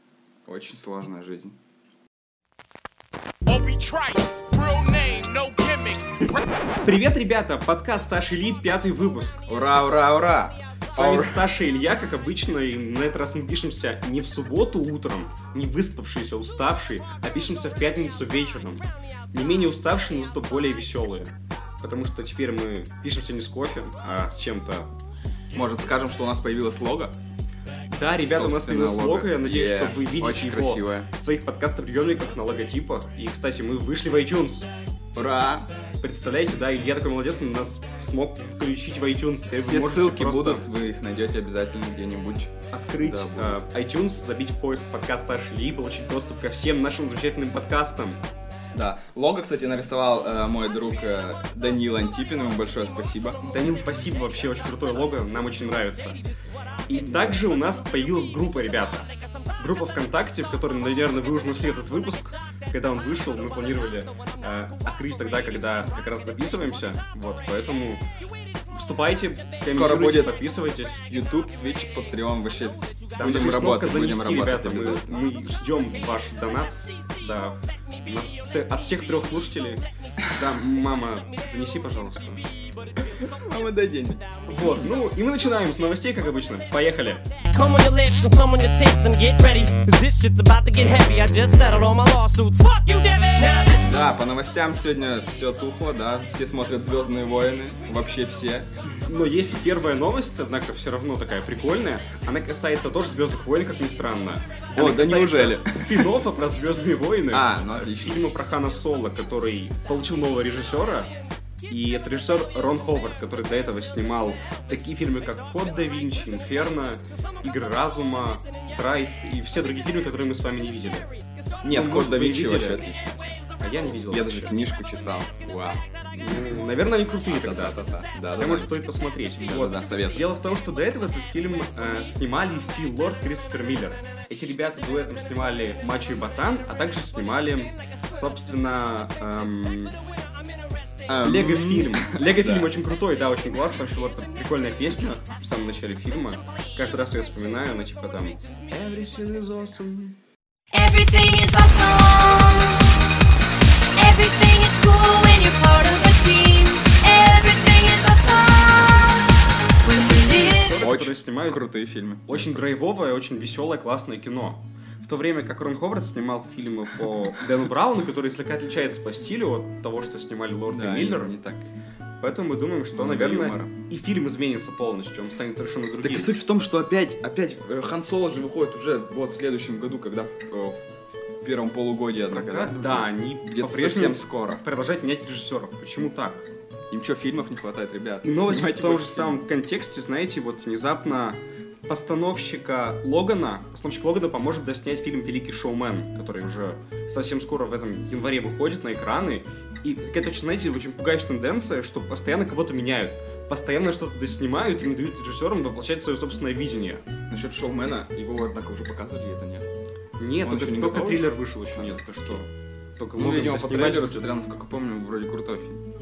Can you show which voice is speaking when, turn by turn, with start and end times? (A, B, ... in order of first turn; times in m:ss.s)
0:00.4-0:01.6 A
0:03.4-0:06.2 B
0:06.8-0:09.4 C
0:09.5-0:11.5 A
0:10.9-0:24.9 C
0:25.5-0:27.1 A
0:27.9-0:34.7 C
0:28.2-0:31.1 A
0:35.1-0:35.7 A
0:36.0-0:40.6 C
0:39.6-0:43.6 A
0:42.7-0:48.2 C
0:48.7-0:53.4 A
0:53.4-0:56.2 C
0:56.9-1:08.0 C
0:56.9-0:57.4 A
1:08.7-1:11.0 C
1:09.6-1:10.4 A
1:11.1-1:15.3 A
1:13.2-1:22.5 C
1:23.0-1:24.9 A
1:24.5-1:27.2 C
1:27.5-1:34.0 B
1:33.8-1:38.9 A
1:39.0-1:51.1 C
1:44.7-1:46.1 A
1:47.3-1:48.3 A
1:51.7-2:01.1 C
2:01.6-2:03.4 A
2:01.7-2:02.8 C
2:03.6-2:04.5 C
2:04.0-2:05.8 A
2:06.1-2:07.8 C
2:07.3-2:08.8 A
2:08.4-2:20.0 C
2:09.4-2:10.3 A
2:21.1-2:22.7 A
2:21.2-2:30.1 C
2:30.7-2:33.1 D
2:34.0-2:40.8 D
2:40.0-2:41.6 C
2:40.8-2:42.6 A
2:42.3-2:51.3 C
2:50.6-2:51.7 A
2:52.2-2:56.3 C
2:52.9-2:53.7 A
2:56.0-3:00.8 A
3:01.4-3:04.6 A
3:02.3-3:06.4 C
3:06.9-3:09.4 A
3:08.2-3:27.0 C
3:27.3-3:29.7 A
3:30.2-3:34.3 C
3:30.4-3:32.4 A
3:33.2-3:35.8 A